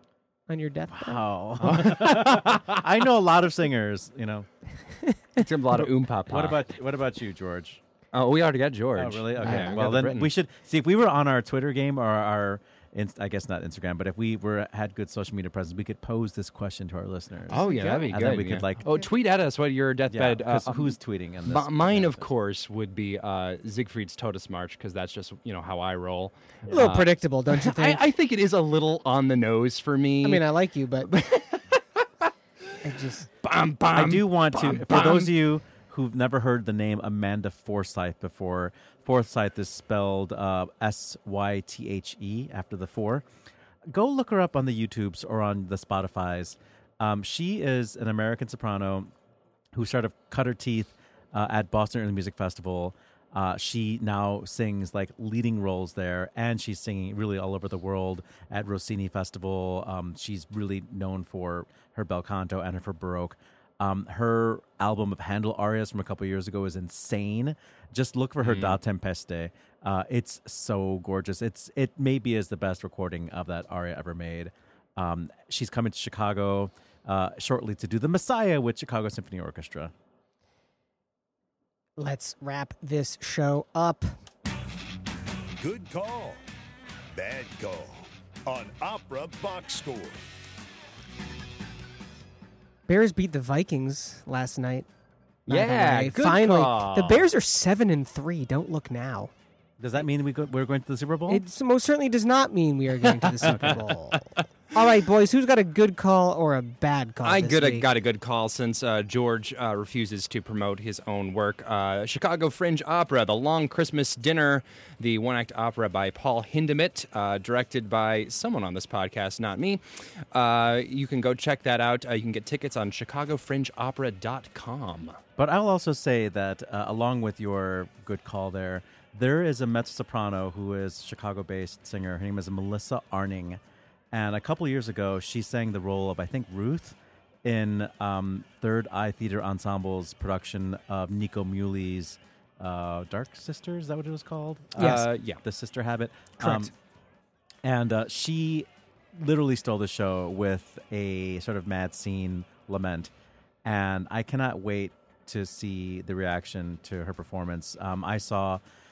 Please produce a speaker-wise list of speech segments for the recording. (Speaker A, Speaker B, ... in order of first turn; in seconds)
Speaker A: 0.5-1.2, 5.0-5.5, 17.6-18.1, 26.7-28.0, 30.2-31.1, 32.8-33.3, 82.0-84.1, 92.9-94.9, 95.5-99.3, 101.3-107.9, 144.8-145.1, 146.4-146.7
Speaker B: 0.9-4.5, 6.3-7.8, 9.0-18.8, 20.1-22.3, 34.0-43.3, 43.9-49.1, 49.7-79.9, 99.8-101.4, 125.4-133.6, 134.1-146.7, 147.6-153.1, 153.7-158.6
Speaker C: 1.6-2.8, 5.4-6.6, 8.1-10.3, 17.5-30.5, 31.1-32.3, 33.4-35.3, 68.4-68.8, 95.5-97.3, 103.2-103.8, 107.2-125.2, 144.8-145.4
Speaker D: 85.6-86.4, 87.1-90.2